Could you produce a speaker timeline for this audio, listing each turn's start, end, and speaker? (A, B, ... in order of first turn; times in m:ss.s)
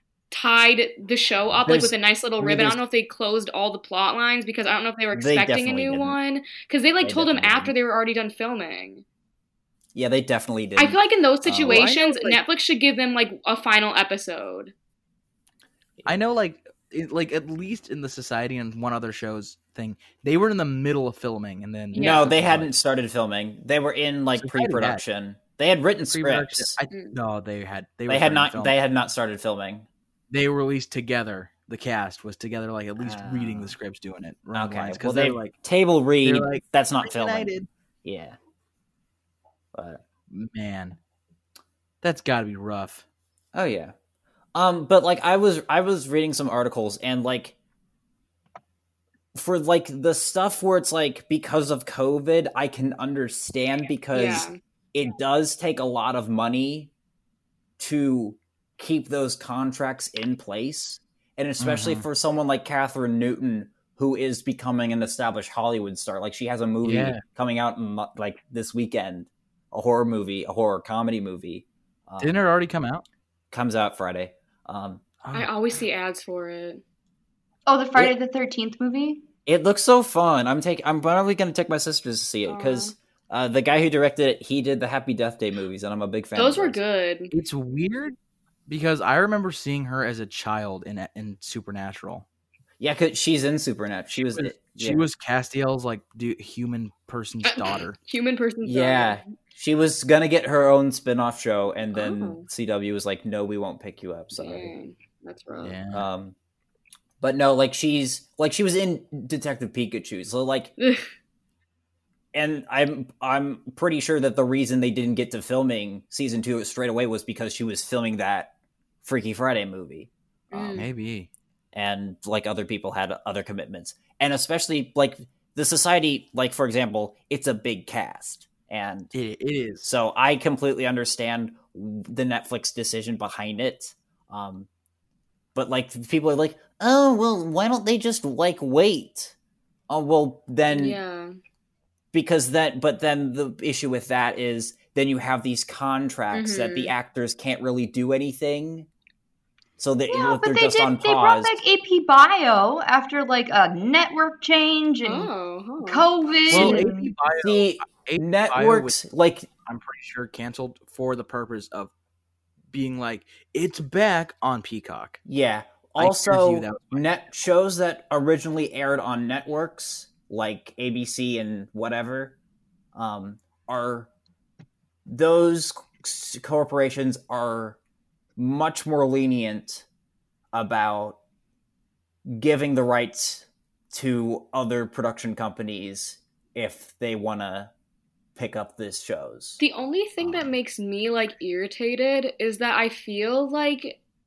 0:00.3-0:09.0 A
0:01.5-0:02.8 B
0:05.1-0:06.2 B
0:07.0-0:07.7 B
0:10.0-0:11.9 B
0:10.8-0:14.7 A
0:11.6-0:12.4 C
0:16.1-0:22.8 C
0:21.9-0:22.3 A
0:21.9-0:26.8 B
0:24.4-0:25.0 C
0:26.1-0:28.8 C
0:26.9-0:27.2 A
0:28.1-0:29.9 B
0:30.3-0:35.6 C
0:33.0-0:33.8 B
0:34.5-0:37.5 B
0:36.2-0:37.7 C
0:38.0-0:38.4 B
0:39.7-0:40.0 B
0:40.3-0:41.0 C
0:42.0-0:43.0 C
0:43.5-0:43.9 B
0:44.6-0:47.6 B
0:49.4-0:56.9 B
0:54.1-0:54.6 A
0:57.8-1:12.5 B
1:01.6-1:02.0 C
1:06.8-1:07.2 C
1:12.2-1:13.0 C
1:13.5-1:15.0 B
1:15.2-1:15.5 C
1:15.3-1:16.8 A
1:17.7-1:19.3 D
1:19.5-1:26.8 B
1:22.5-1:22.9 A
1:26.4-1:27.3 A
1:27.3-1:28.2 C
1:28.7-1:32.2 C
1:32.8-1:35.0 B
1:34.2-1:38.0 C
1:37.5-1:39.2 A
1:38.6-1:44.7 B
1:41.9-1:42.5 A
1:44.3-1:45.8 A
1:45.6-1:46.1 C
1:45.9-1:46.4 B
1:47.2-1:50.7 B
1:50.8-1:51.0 A
1:52.3-1:58.5 B
1:59.0-2:00.1 B
2:00.5-2:00.9 A
2:00.6-2:01.3 C
2:01.7-2:09.1 B
2:09.1-2:09.8 C
2:09.8-2:14.7 B
2:15.6-2:19.4 B
2:19.9-2:21.0 B
2:20.7-2:21.3 A
2:22.1-2:28.9 B
2:26.3-2:26.9 A
2:29.8-2:31.6 B
2:30.1-2:35.3 D
2:35.0-2:36.1 A
2:35.8-2:37.1 D
2:36.5-2:39.0 C
2:36.5-2:39.5 B
2:39.6-2:41.9 C
2:42.7-2:45.2 C
2:45.2-2:52.4 B
2:46.0-2:47.1 C
2:52.9-2:54.1 B
2:55.1-2:57.8 B
2:58.4-2:59.8 B
3:00.5-3:01.2 B
3:02.3-3:07.7 B
3:08.4-3:09.6 B
3:09.6-3:14.0 A
3:10.2-3:10.5 B